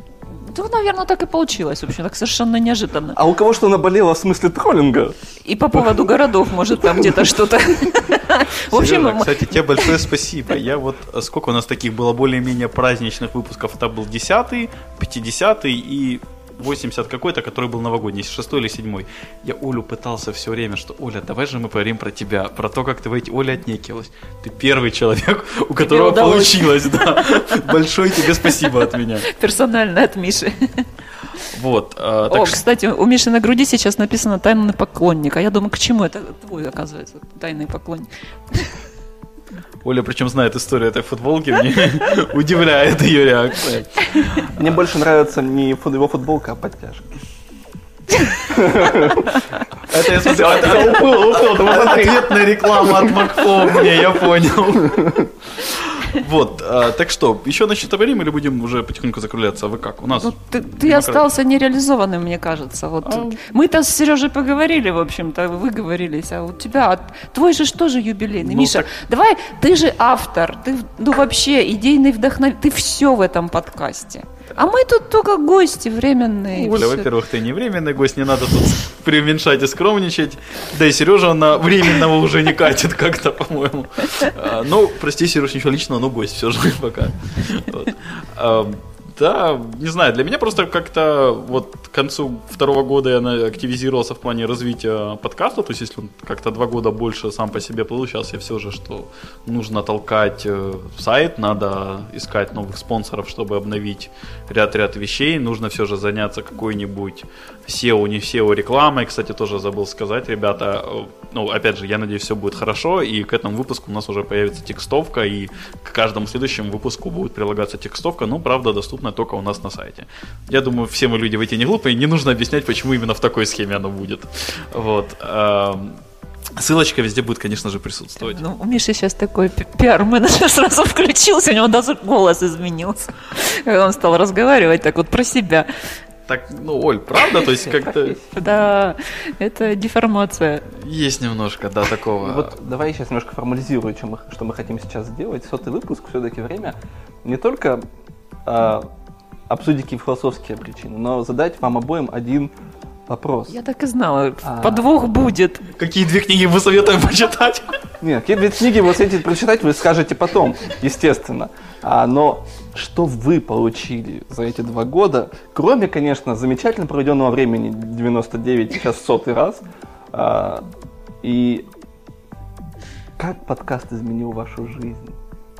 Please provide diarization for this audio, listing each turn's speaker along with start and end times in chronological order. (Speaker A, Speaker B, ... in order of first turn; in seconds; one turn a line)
Speaker A: 0.4-3.2
Speaker B: 3.1-5.2
Speaker A: 5.4-10.1
Speaker C: 8.7-29.3
Speaker A: 25.8-28.7
Speaker A: 29.3-30.9
Speaker C: 31.5-32.6
Speaker A: 32.3-38.7
Speaker C: 39.8-44.6
Speaker B: 44.5-47.1
Speaker B: 48.5-49.4
Speaker C: 49.9-61.3
Speaker B: 50.2-52.3
Speaker A: 50.6-51.0
Speaker A: 60.1-77.1
Speaker C: 63.0-63.4
Speaker C: 68.4-68.9
Speaker C: 76.5-126.0
Speaker C: 126.6-128.4
Speaker A: 128.3-135.7
Speaker C: 136.3-138.2
Speaker A: 137.2-137.6
Speaker A: 138.3-140.7
Speaker C: 140.7-142.5
Speaker B: 142.2-147.8
Speaker B: 148.4-148.9
Speaker B: 149.5-152.5
Speaker B: 153.1-153.6
Speaker A: 153.5-155.7
Speaker B: 154.4-154.9
Speaker C: 155.8-157.8
Speaker B: 158.0-170.7
Speaker B: 171.2-171.7
Speaker B: 173.2-175.2